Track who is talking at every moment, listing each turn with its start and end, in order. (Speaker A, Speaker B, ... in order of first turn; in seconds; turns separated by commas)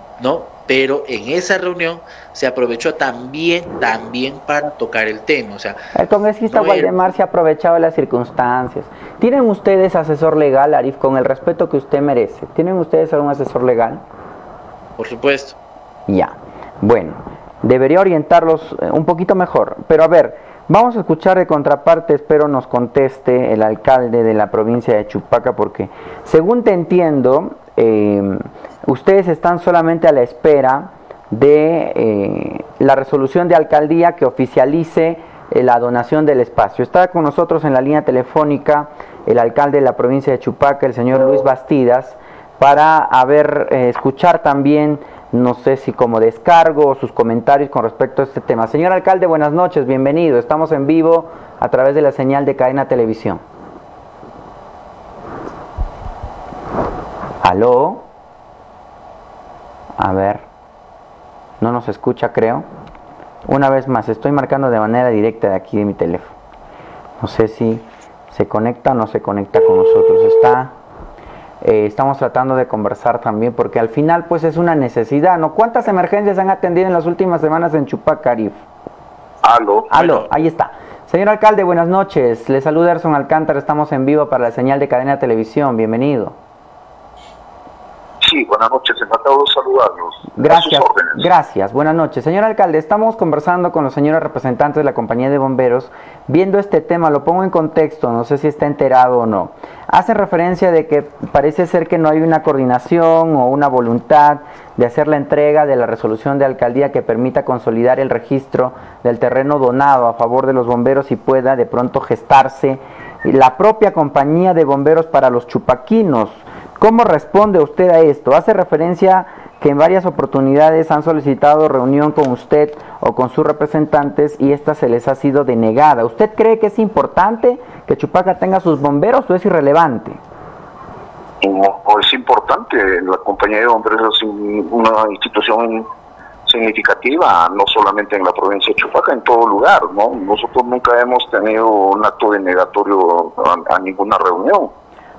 Speaker A: 0.2-5.8, Speaker B: 5.9-14.0, Speaker A: 6.5-7.0, Speaker A: 15.0-15.6, Speaker B: 16.1-53.4, Speaker B: 57.4-58.0, Speaker B: 60.0-60.5, Speaker B: 61.6-62.6, Speaker B: 63.5-66.3, Speaker B: 67.2-70.7, Speaker B: 71.6-78.6, Speaker C: 79.4-79.9, Speaker B: 79.9-86.3, Speaker A: 79.9-80.4, Speaker C: 88.2-91.2, Speaker B: 90.4-130.2, Speaker C: 131.4-135.8, Speaker C: 136.4-144.7